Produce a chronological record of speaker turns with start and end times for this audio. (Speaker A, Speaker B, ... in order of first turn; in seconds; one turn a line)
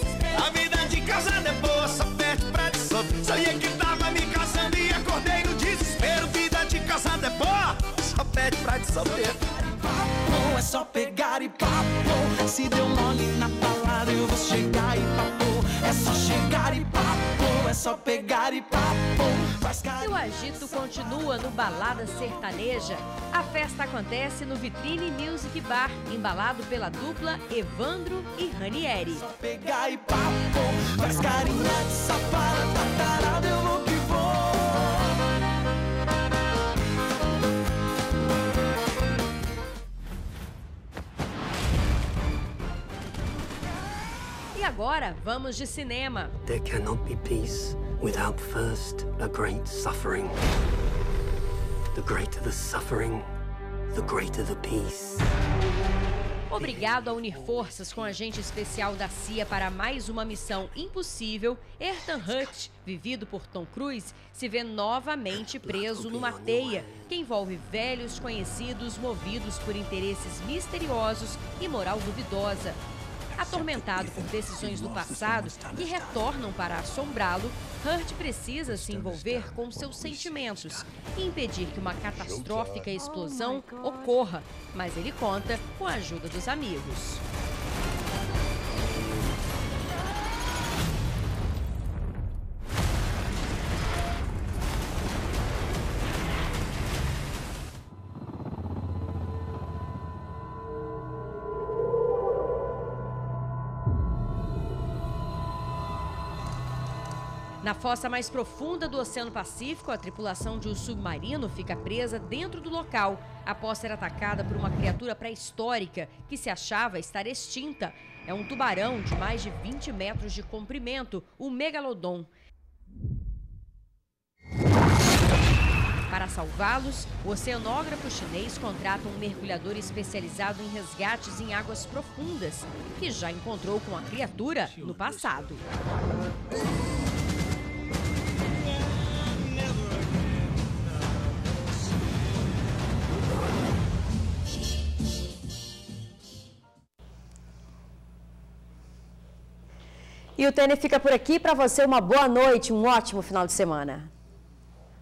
Speaker A: 0.4-4.0
Speaker A: 5.1-7.9
Speaker A: 9.8-20.1
Speaker B: 20.0-29.2
Speaker A: 29.4-34.9
Speaker B: 44.5-46.3
Speaker C: 46.5-50.4
Speaker C: 51.9-53.2
Speaker C: 53.9-55.2
Speaker B: 56.5-72.8
Speaker C: 65.6-67.0
Speaker B: 73.4-87.2
Speaker C: 73.4-76.3
Speaker C: 78.7-80.9
Speaker C: 82.3-82.6
Speaker B: 107.6-122.3
Speaker B: 126.1-135.6
Speaker B: 150.4-154.1